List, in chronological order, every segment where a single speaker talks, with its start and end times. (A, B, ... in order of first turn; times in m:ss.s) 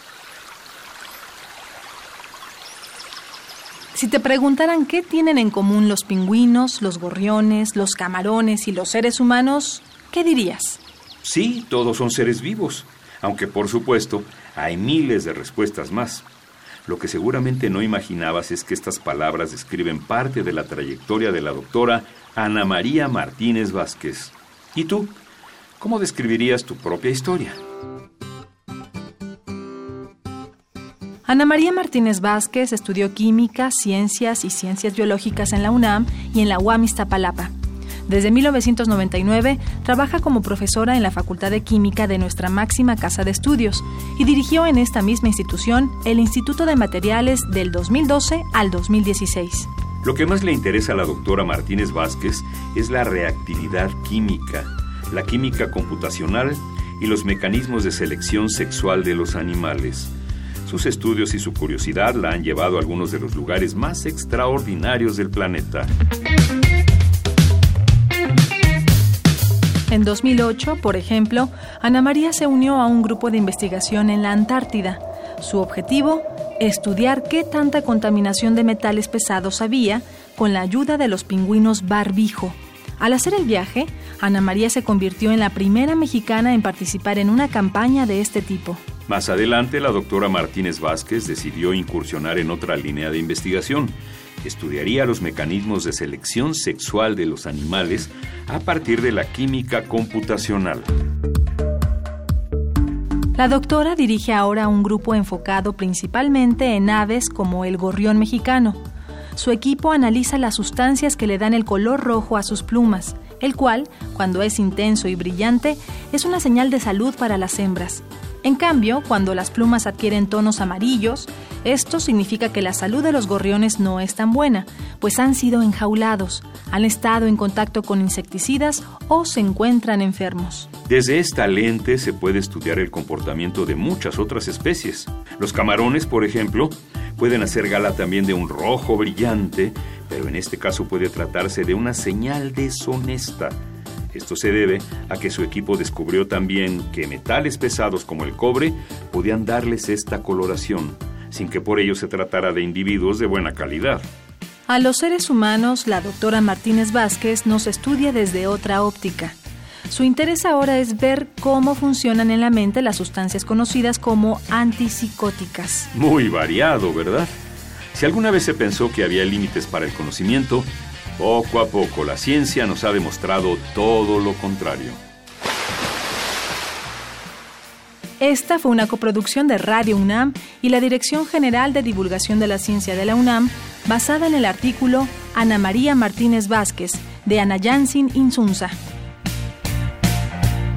0:03.9-0:10.8 A
0:11.2-0:16.2 B
0:16.8-0:25.1 B
0:25.8-0:27.6 B
0:31.3-0:37.5 A
0:38.1-0:49.7 A
0:50.0-1:00.1 B
1:00.6-1:05.9 B
1:09.9-1:28.8 A
1:29.1-1:40.9 B
1:43.4-1:48.8 A
1:49.4-2:10.7 A
2:10.9-2:23.6 B
2:24.1-2:34.0 B
2:34.7-2:39.4 A
2:39.9-2:45.9 A
2:45.9-2:47.3 B
2:47.9-2:55.0 B
2:58.2-3:08.8 A